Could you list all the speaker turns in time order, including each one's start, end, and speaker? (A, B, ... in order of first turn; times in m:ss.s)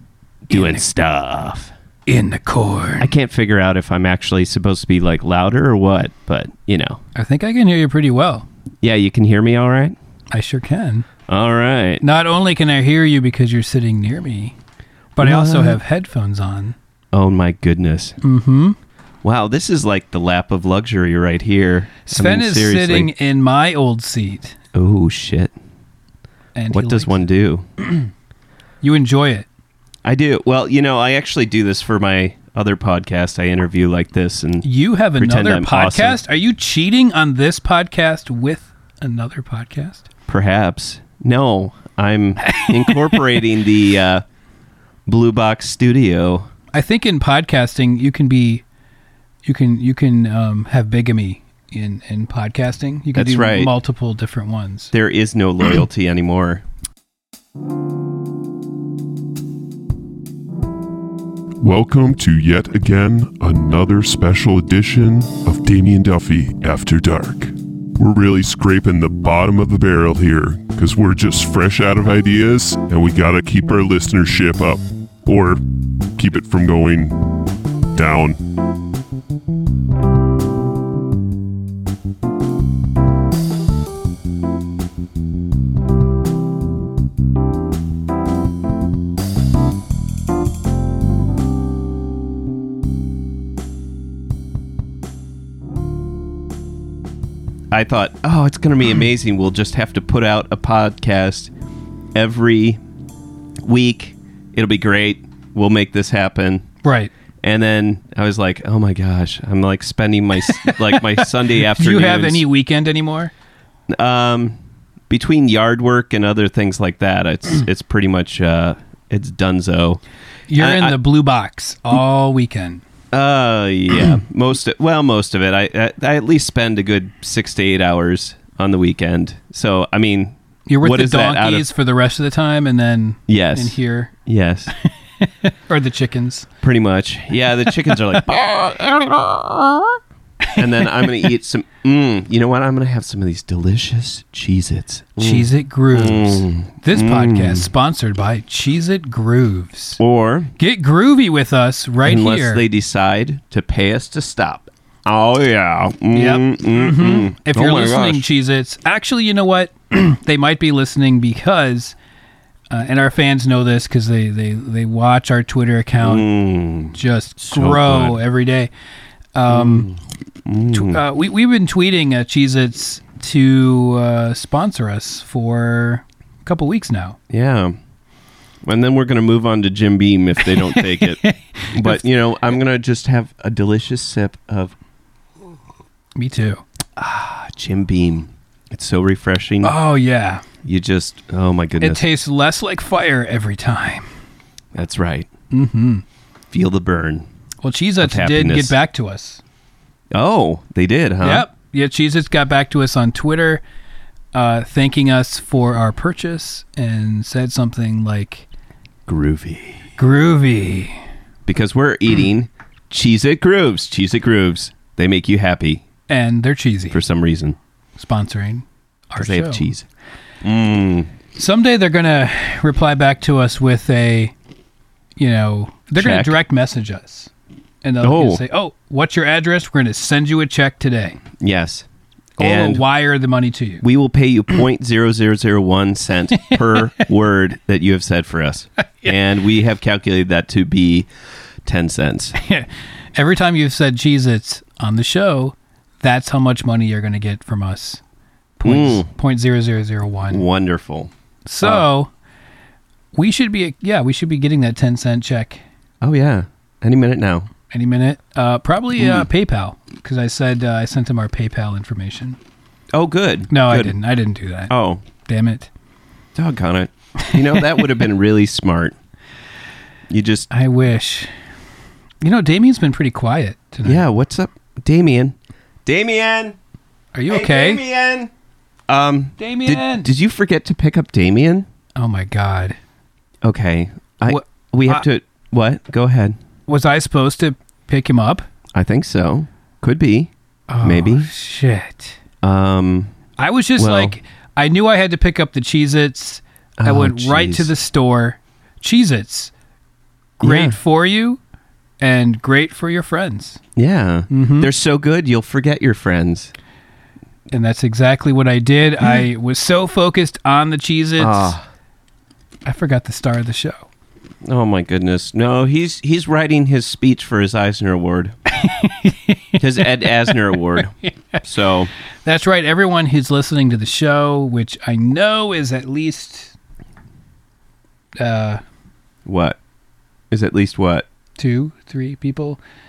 0:00.5-0:01.7 A
0:00.5-0:00.8 B
0:02.1-0:03.1 B
0:03.0-0:07.0 A
0:07.2-0:08.5 B
0:08.8-0:10.0 A
0:10.3-0:11.1 B
0:11.3-0:12.0 A
0:12.0-0:14.6 B
0:15.2-0:16.8 B
0:15.2-0:15.8 A
0:17.1-0:18.2 A
0:18.2-0:18.8 B
0:19.2-0:23.1 A
0:22.0-0:24.6 B
0:24.7-0:25.5 A
0:26.6-0:27.2 B
0:26.7-0:27.7 A
0:27.8-0:28.1 B
0:28.8-0:29.5 B
0:30.0-0:34.6 A
0:34.6-0:40.0 B
0:35.2-0:36.2 A
0:40.3-0:44.2 A
0:42.4-0:43.2 B
0:45.1-0:46.5 A
0:46.7-0:48.6 B
0:49.4-0:54.9 B
0:53.1-0:53.7 A
0:54.9-0:56.6 A
1:01.6-1:15.6 C
1:16.2-1:17.3 C
1:17.9-1:18.4 C
1:37.7-1:41.5 A
1:42.2-1:42.8 A
1:43.6-1:46.7 A
1:46.8-1:47.1 B
1:47.4-1:52.4 A
1:50.5-1:53.3 B
1:53.9-1:54.6 A
1:55.1-2:00.0 A
2:00.5-2:02.8 B
2:00.6-2:01.0 A
2:03.1-2:11.7 A
2:10.7-2:14.1 B
2:13.3-2:14.7 A
2:14.8-2:16.5 B
2:16.6-2:20.0 A
2:20.4-2:21.1 B
2:20.6-2:27.7 A
2:25.2-2:30.0 B
2:30.0-2:30.5 A
2:30.6-2:32.6 B
2:32.0-2:38.3 A
2:36.1-2:42.0 B
2:42.7-2:46.3 B
2:46.0-2:48.2 A
2:46.9-2:48.7 B
2:49.3-2:49.9 B
2:49.5-2:51.0 A
2:50.7-2:57.2 B
2:57.3-2:57.8 A
2:58.6-3:01.2 A
3:00.5-3:02.0 B
3:01.7-3:04.8 A
3:06.2-3:06.6 B
3:07.0-3:09.8 A
3:09.6-3:10.4 B
3:10.6-3:12.0 A
3:11.8-3:14.1 B
3:14.7-3:15.3 A
3:15.5-3:16.0 B
3:16.5-3:17.3 A
3:17.6-3:19.4 B
3:18.0-3:18.8 A
3:20.1-3:21.5 A
3:21.2-3:23.6 B
3:24.3-3:28.5 B
3:29.1-3:29.8 A
3:30.0-3:31.0 B
3:31.5-3:35.8 A
3:36.1-3:37.0 B
3:36.9-3:37.6 A
3:38.0-3:39.7 B
3:39.2-3:39.9 A
3:40.4-3:41.1 A
3:41.4-3:44.3 B
3:45.2-3:47.3 B
3:46.0-3:46.4 A
3:47.8-3:51.2 B
3:48.0-3:48.4 A
3:51.4-3:51.9 A
3:52.4-3:52.8 A
3:52.4-3:53.8 B
3:53.8-4:01.1 A
4:01.6-4:02.3 A
4:02.4-4:08.0 B
4:08.6-4:10.4 B
4:08.6-4:09.1 A
4:10.3-4:11.1 A
4:11.5-4:12.1 B
4:13.1-4:15.6 B
4:16.0-4:17.5 A
4:17.7-4:22.4 B
4:19.0-4:19.3 A
4:22.9-4:24.0 A
4:23.5-4:24.7 B
4:24.7-4:25.0 A
4:25.2-4:25.7 B
4:26.4-4:29.0 A
4:27.2-4:27.8 B
4:30.1-4:30.5 A
4:30.5-4:31.3 B
4:32.2-4:34.0 B
4:33.8-4:35.4 A
4:35.9-4:36.6 A
4:37.1-4:37.8 B
4:37.3-4:38.3 A
4:38.9-4:41.7 A
4:39.4-4:40.1 B
4:42.0-4:42.8 B
4:43.4-4:46.4 A
4:44.2-4:45.0 B
4:46.7-4:48.4 B
4:48.7-4:50.3 A
4:50.7-4:52.2 B
4:50.8-4:51.3 A
4:52.4-4:53.1 A
4:53.4-4:59.5 B
4:53.8-4:54.2 A
4:56.8-4:57.7 A
5:00.4-5:01.4 B
5:00.4-5:00.8 A
5:02.0-5:03.6 B
5:03.8-5:06.5 A
5:04.3-5:04.7 B
5:07.5-5:11.6 B
5:11.2-5:11.6 A
5:12.7-5:13.9 B
5:14.4-5:18.4 A
5:18.5-5:20.3 B
5:19.6-5:21.9 A
5:21.0-5:21.4 B
5:22.2-5:26.6 B
5:28.2-5:28.6 B
5:29.3-5:29.6 A
5:30.3-5:31.1 A
5:31.4-5:32.6 B